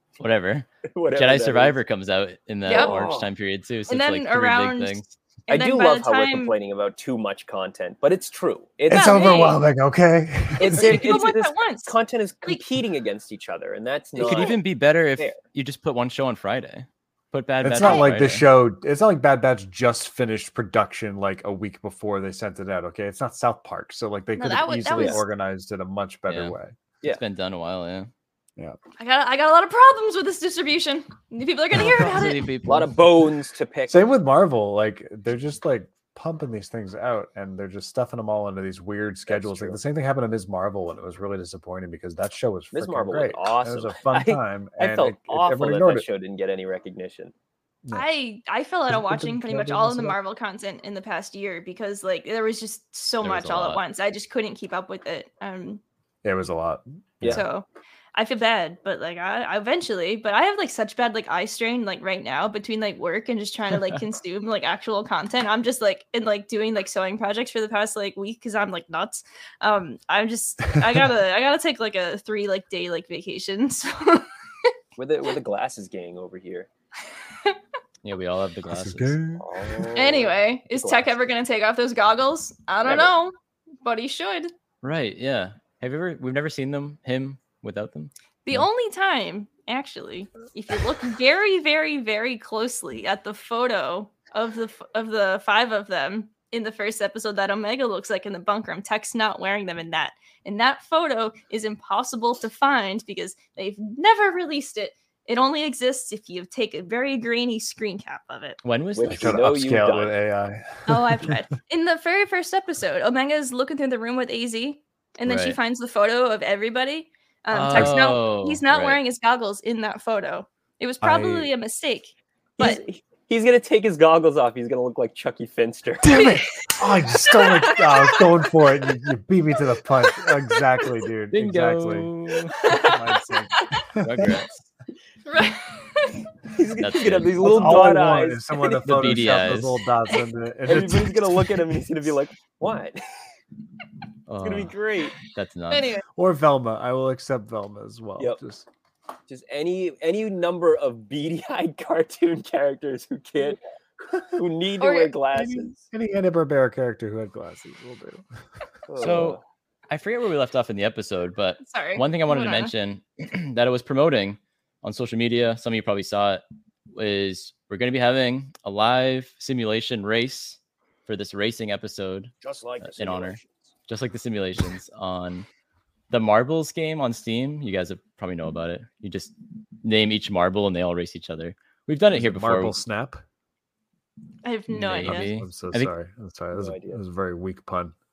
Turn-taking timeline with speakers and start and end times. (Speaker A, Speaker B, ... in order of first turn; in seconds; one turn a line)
Speaker A: 0.2-5.1
Speaker B: 0.9-1.8
Speaker C: 2.6-3.0
Speaker B: 2.7-3.3
Speaker C: 3.9-6.5
Speaker B: 5.5-9.5
Speaker D: 8.9-11.2
Speaker C: 8.9-9.6
Speaker B: 10.6-14.6
Speaker C: 10.6-12.6
Speaker A: 14.2-18.4
Speaker C: 14.2-14.6
Speaker D: 17.6-26.7
Speaker C: 17.8-18.1
Speaker C: 24.4-25.2
Speaker A: 26.3-28.1
Speaker C: 29.0-32.4
Speaker A: 31.8-33.0
Speaker B: 32.6-34.0
Speaker D: 33.9-46.0
Speaker B: 39.3-39.8
Speaker B: 42.7-47.3
Speaker C: 47.9-55.8
Speaker D: 48.9-50.2
Speaker A: 53.2-53.8
Speaker D: 56.2-57.4
Speaker C: 57.2-74.7
Speaker B: 75.0-76.7
Speaker A: 78.0-79.2
Speaker D: 78.7-79.9
Speaker B: 79.4-81.1
Speaker C: 79.9-84.5
Speaker B: 82.8-83.1
Speaker A: 84.8-88.1
Speaker C: 88.4-108.6
Speaker A: 108.6-109.4
Speaker B: 109.0-110.1
Speaker D: 109.1-111.3
Speaker C: 110.9-122.8
Speaker A: 115.2-115.6
Speaker A: 117.5-119.0
Speaker D: 121.0-121.5
Speaker B: 122.6-126.2
Speaker D: 126.0-132.1
Speaker C: 126.1-128.2
Speaker A: 131.3-132.7
Speaker C: 132.6-133.8
Speaker D: 132.6-134.4
Speaker A: 134.0-134.6
Speaker C: 135.2-136.3
Speaker B: 136.5-139.4
Speaker A: 136.8-137.9
Speaker D: 137.4-141.8
Speaker A: 138.8-139.8
Speaker B: 140.7-143.0
Speaker A: 144.3-145.9
Speaker B: 144.4-145.1
Speaker C: 145.7-146.0
Speaker D: 146.2-148.7
Speaker B: 149.3-153.6
Speaker B: 154.3-155.8
Speaker C: 154.8-155.1
Speaker D: 155.3-158.2
Speaker B: 158.9-159.4
Speaker A: 159.0-175.5
Speaker C: 161.6-162.7
Speaker B: 172.4-173.6
Speaker A: 176.1-182.8
Speaker D: 182.1-183.2
Speaker C: 184.4-185.3
Speaker A: 184.7-185.9
Speaker D: 185.0-187.9
Speaker B: 186.6-187.0